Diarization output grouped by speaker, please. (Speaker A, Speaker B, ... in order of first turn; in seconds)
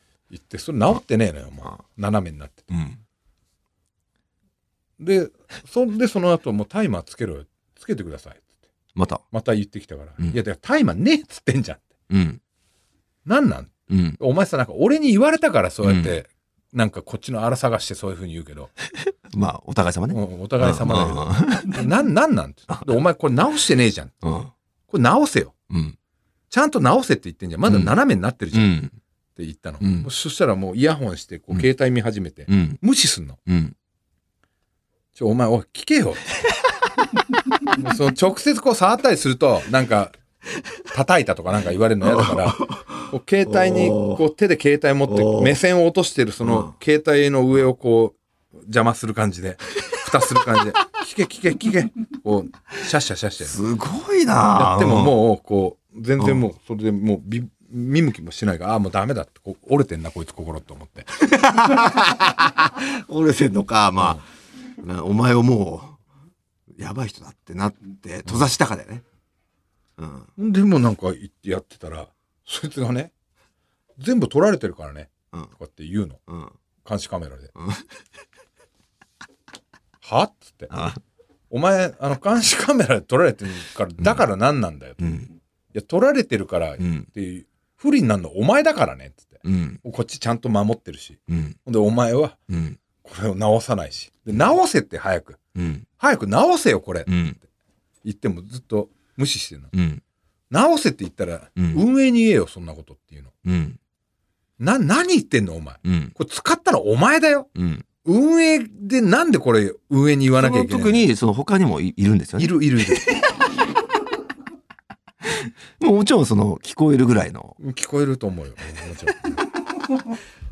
Speaker A: 0.3-2.7, 5.0-8.4, 9.3-11.9, 13.2-18.7, 20.1-24.2, 24.9-25.5, 26.5-28.8, 29.4-33.4, 35.1-36.2, 37.7-40.1, 40.9-53.6, 54.5-61.1, 70.4-73.1, 74.0-76.2, 76.8-77.5, 80.0-80.8, 81.5-85.0, 85.7-92.4, 93.0-95.4, 96.0-97.1, 98.0-99.7, 100.5-103.3, 104.6-107.5, 108.0-111.1, 112.4-113.1, 117.6-119.4
Speaker B: 2.7-3.0, 8.9-9.2, 12.1-12.4, 13.9-14.2, 15.8-16.1, 19.0-21.8, 24.2-24.5, 25.7-25.9, 27.6-27.9, 28.5-28.9, 29.8-30.1, 32.5-32.8, 33.5-33.8, 42.1-44.2, 45.1-45.5, 46.4-46.7, 53.4-55.1, 61.2-64.2, 64.8-66.0, 66.8-69.0, 70.0-70.3, 76.3-76.5, 77.5-77.8, 80.7-81.0, 85.0-85.3, 86.8-87.1, 89.4-89.8, 91.3-91.5, 92.5-92.8, 95.5-95.8, 97.1-97.4, 99.7-100.0, 101.6-101.8, 103.4-103.8, 105.8-106.1, 107.5-107.8, 110.4-113.3, 115.2-117.6